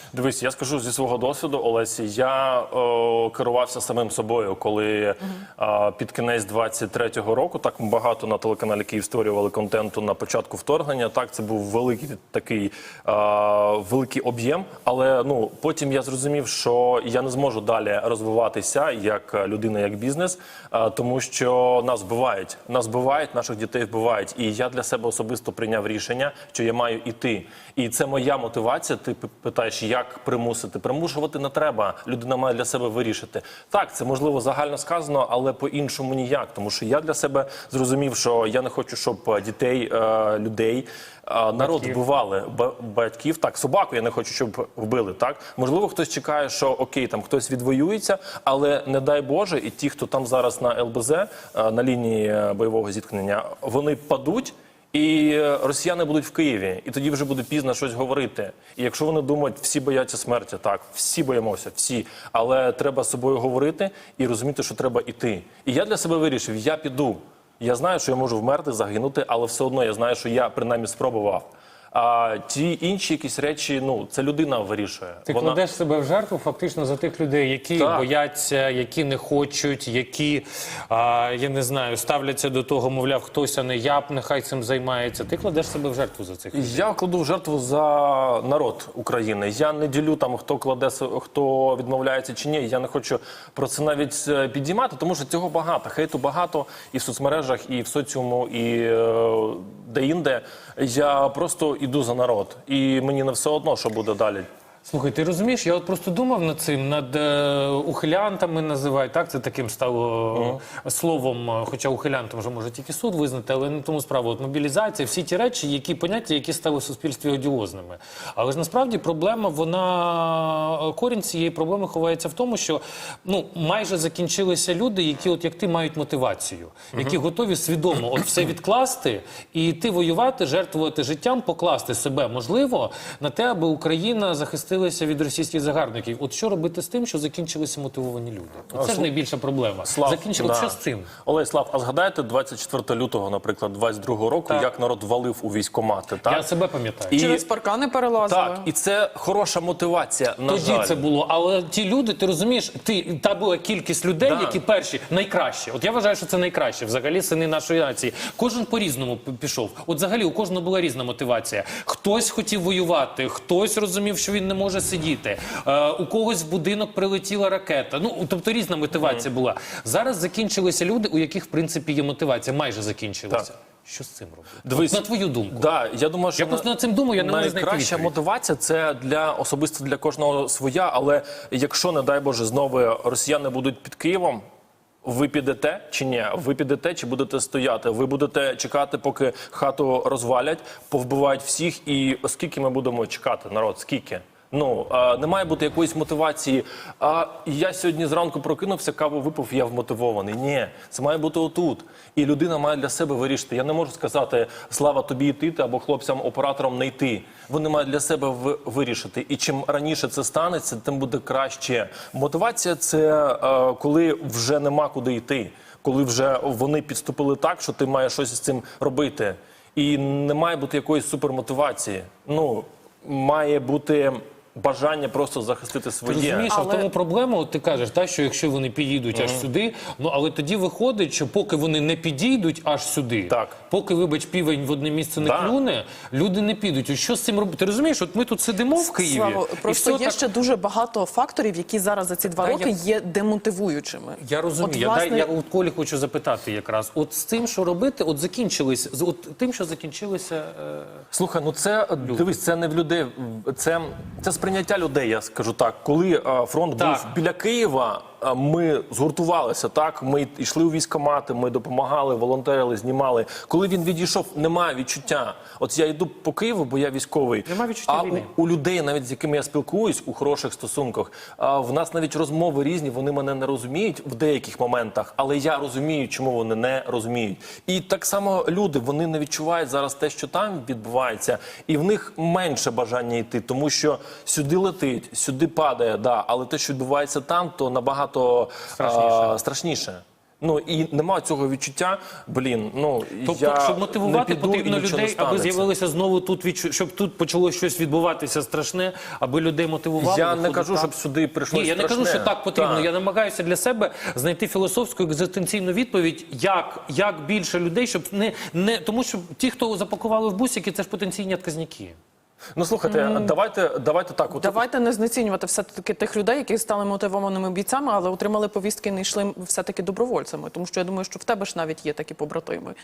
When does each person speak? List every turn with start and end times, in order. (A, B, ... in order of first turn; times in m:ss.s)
0:00.1-1:15.6 A
0:41.6-0:42.0 B
1:15.2-1:26.9 B
1:17.7-1:18.1 A
1:26.5-1:44.5 A
1:44.8-2:21.1 B
1:50.3-1:50.6 A
2:18.7-2:19.1 A
2:19.8-2:26.5 A
2:26.2-2:27.2 B
2:27.1-2:27.5 A
2:27.1-2:28.7 C
2:28.2-2:31.1 A
2:30.5-2:55.7 B
2:34.2-2:34.6 A
2:49.0-2:49.3 A
2:54.6-3:04.4 A
2:56.4-2:58.1 B
3:05.0-3:46.5 A
3:46.0-4:00.3 B
3:46.5-3:46.9 C
3:49.1-3:49.5 A
3:53.3-3:53.5 A
3:55.2-3:55.6 A
3:58.8-4:05.3 C
4:02.3-4:02.7 B
4:04.2-4:11.0 B
4:11.1-4:55.7 A
4:16.8-4:17.1 B
4:27.4-4:28.3 B
4:48.7-4:49.4 B
4:53.1-5:00.9 B
5:00.0-5:02.9 A
5:01.5-5:12.0 B
5:12.6-5:14.6 A
5:12.8-5:13.4 C
5:14.3-5:22.7 C